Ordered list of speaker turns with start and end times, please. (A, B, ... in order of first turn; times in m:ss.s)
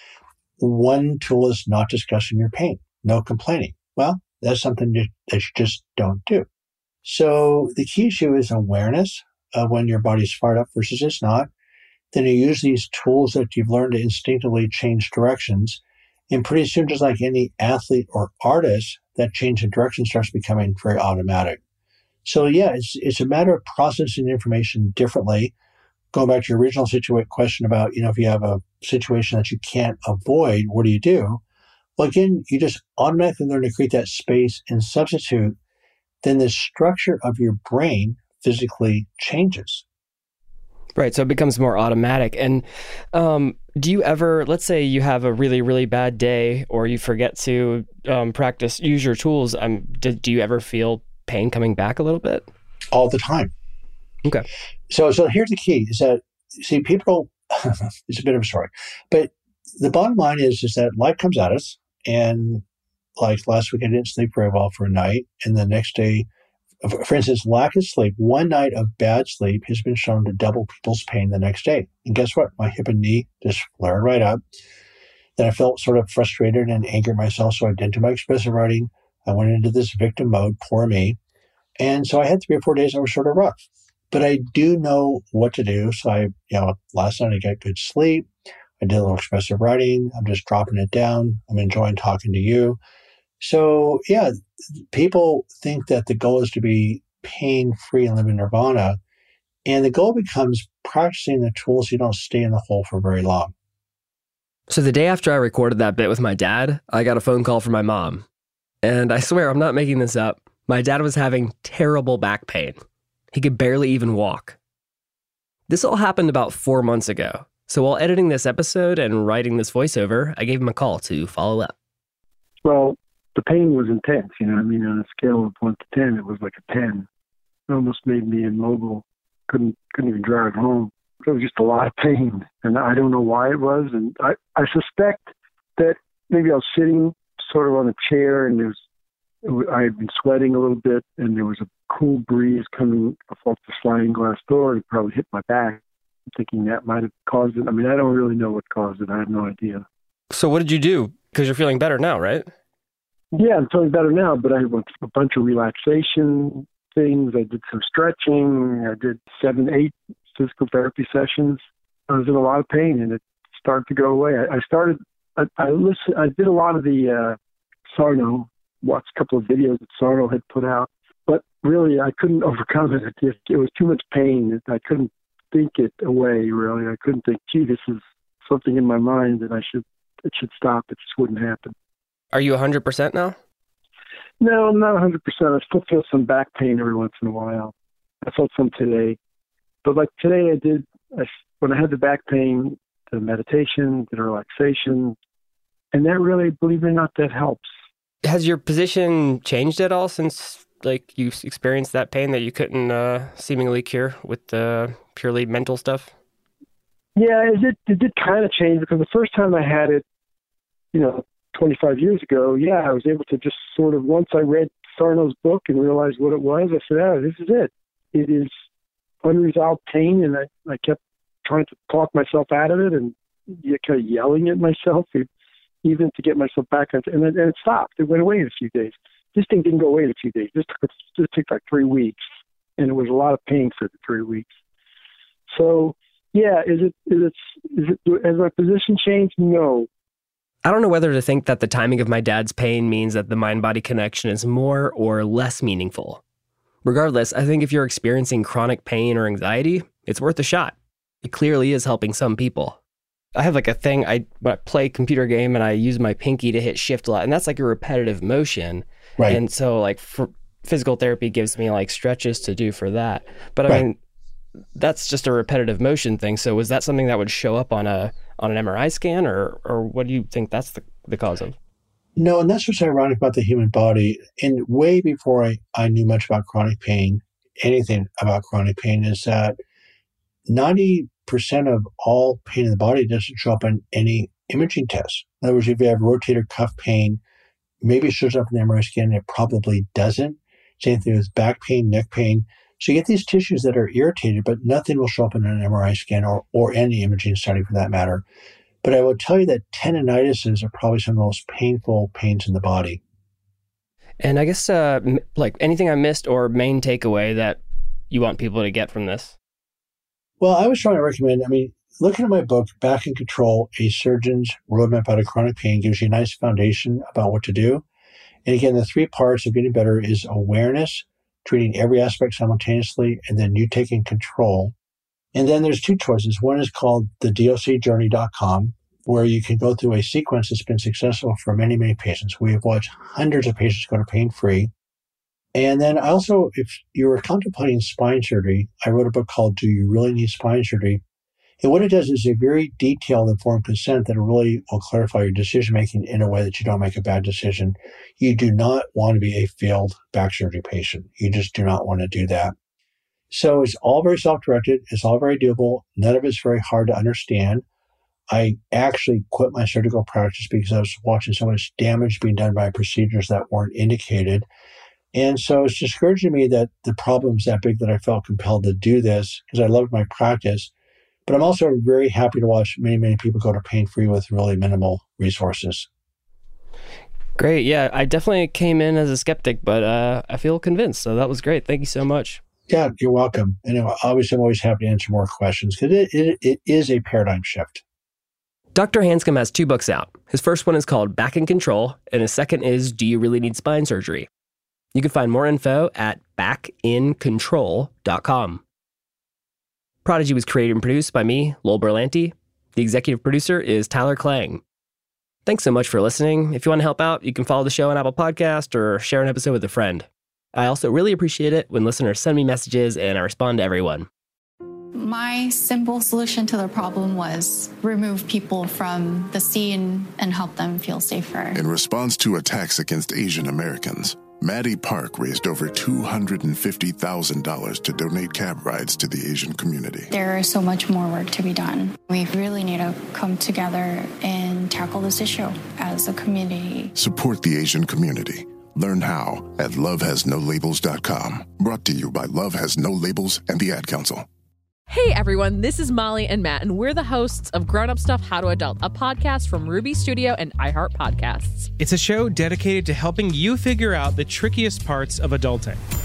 0:00.6-0:06.5 A
0:07.0-0:11.5 A
0:12.1-0:21.6 A
0:22.2-0:25.5 A
0:26.1-0:31.4 A
0:32.0-0:35.6 A
0:36.2-0:39.8 A
0:41.0-0:52.5 B
0:52.9-0:53.5 A
0:54.9-1:02.6 A
1:03.2-1:06.3 A
1:06.8-1:14.4 A
1:15.4-1:21.2 A
1:21.8-1:28.3 A
1:28.8-1:32.8 A
1:33.4-1:39.0 A
1:39.6-1:43.5 A
1:44.7-1:48.2 B
1:48.8-1:52.8 B
1:53.3-1:54.6 B
1:55.7-2:01.7 B
2:02.6-2:07.1 C
2:07.7-2:18.8 C
2:19.4-2:25.8 C
2:26.3-2:29.8 C
2:30.3-2:32.5 B
2:33.3-2:47.4 C
2:47.9-3:01.7 C
3:02.3-3:03.4 B
3:04.4-3:09.2 C
3:09.8-3:15.2 C
3:15.9-3:17.7 C
3:18.2-3:26.1 B
3:27.2-3:30.0 C
3:30.9-3:38.5 C
3:39.2-3:45.3 C
3:45.8-3:52.2 C
3:52.8-3:54.6 C
3:55.5-3:59.9 C
4:00.6-4:06.2 B
4:06.8-4:12.8 B
4:13.4-4:24.0 B
4:24.8-4:31.6 B
4:32.2-4:39.6 A
4:40.5-4:47.2 A
4:47.8-4:58.2 A
4:58.8-5:03.0 A
5:04.2-5:09.4 B
5:10.4-5:17.8 A
5:18.4-5:24.8 A
5:25.3-5:34.7 A
5:35.6-5:41.0 A
5:41.6-5:52.5 A
5:53.3-5:57.6 A
5:58.3-6:04.5 A
6:05.1-6:10.7 A
6:11.3-6:15.9 A
6:17.4-6:22.4 B
6:22.7-6:27.8 A
6:28.8-6:34.3 B
6:34.9-6:38.6 B
6:40.0-6:44.6 B
6:45.5-6:54.1 B
6:55.0-7:01.6 D
7:01.5-7:10.1 E
7:10.1-7:16.9 D
7:17.0-7:24.3 E
7:24.9-7:31.7 F
7:31.8-7:35.8 G